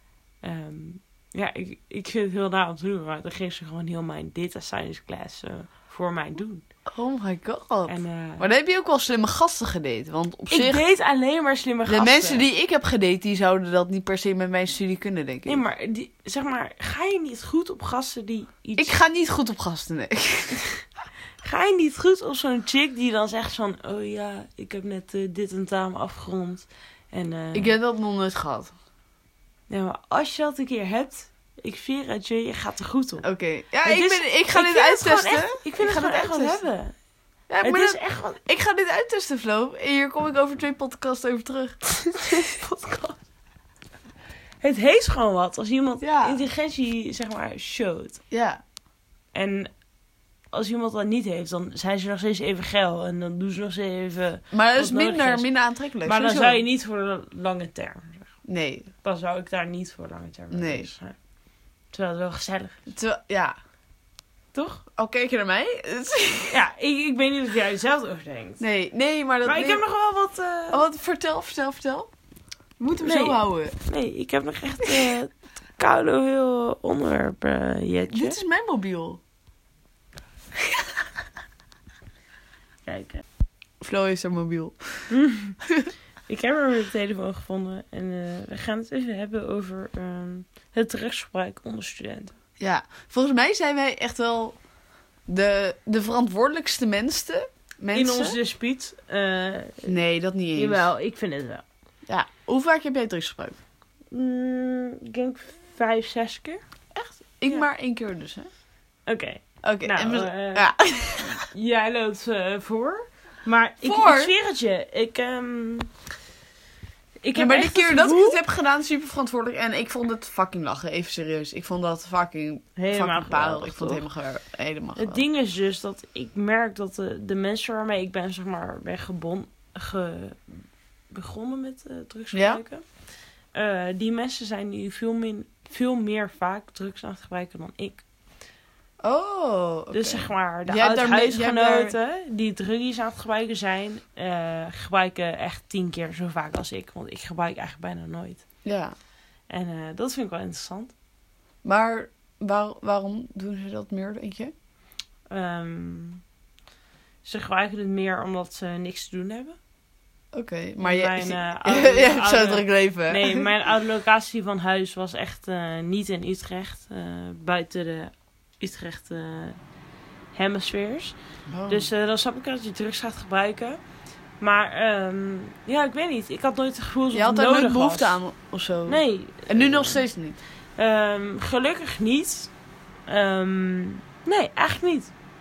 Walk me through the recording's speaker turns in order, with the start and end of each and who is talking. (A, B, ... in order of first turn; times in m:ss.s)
0:00.4-0:06.6 A
0:06.9-0:10.8 B
0:07.9-0:08.4 A
0:10.5-0:12.5 A
0:11.9-0:15.6 B
0:15.5-0:18.9 A
0:18.8-0:20.7 B
0:21.4-0:27.8 A
0:27.5-0:28.7 B
0:29.7-0:33.2 A
0:33.2-0:36.6 B
0:33.8-0:37.0 A
0:37.5-0:41.8 B
0:37.6-0:38.4 A
0:42.1-0:43.2 A
0:44.6-0:48.2 A
0:46.0-0:46.4 B
0:48.3-0:48.6 B
0:49.3-0:49.7 A
0:50.5-0:55.5 A
0:54.5-0:56.6 B
0:56.0-0:58.3 A
0:58.5-0:58.9 B
0:59.0-1:01.2 A
1:00.5-1:00.9 B
1:01.9-1:02.8 A
1:02.9-1:03.6 B
1:04.5-1:04.8 A
1:05.0-1:06.6 B
1:06.5-1:08.6 A
1:08.6-1:09.8 B
1:09.4-1:10.8 A
1:10.7-1:12.1 B
1:12.8-1:13.8 B
1:13.0-1:18.4 A
1:18.1-1:19.2 B
1:22.8-1:23.2 A
1:23.8-1:25.1 B
1:25.1-1:25.6 A
1:25.6-1:25.9 B
1:26.3-1:32.3 A
1:32.6-1:34.6 B
1:35.3-1:38.4 B
1:37.9-1:39.9 A
1:39.9-1:40.9 B
1:40.6-1:41.6 A
1:42.1-1:43.6 B
1:44.1-1:46.6 A
1:47.0-1:48.5 B
1:49.1-1:50.7 A
1:49.6-1:51.4 B
1:51.3-1:55.9 A
1:53.8-1:54.3 B
1:57.2-1:58.4 A
1:57.4-2:05.2 B
2:02.8-2:04.1 A
2:05.0-2:10.4 A
2:11.1-2:12.8 A
2:12.3-2:12.6 B
2:13.5-2:18.0 A
2:19.0-2:21.9 B
2:19.9-2:28.4 A
2:28.6-2:29.0 B
2:29.5-2:30.9 A
2:31.6-2:34.5 B
2:35.3-2:36.2 A
2:37.2-2:39.6 A
2:40.3-2:43.5 B
2:40.8-2:49.6 A
2:50.3-2:51.2 A
2:51.5-2:51.9 B
2:51.7-2:53.8 A
2:54.4-2:58.2 A
2:57.1-3:00.4 B
2:58.9-3:00.0 A
3:00.8-3:02.5 A
3:03.1-3:05.1 A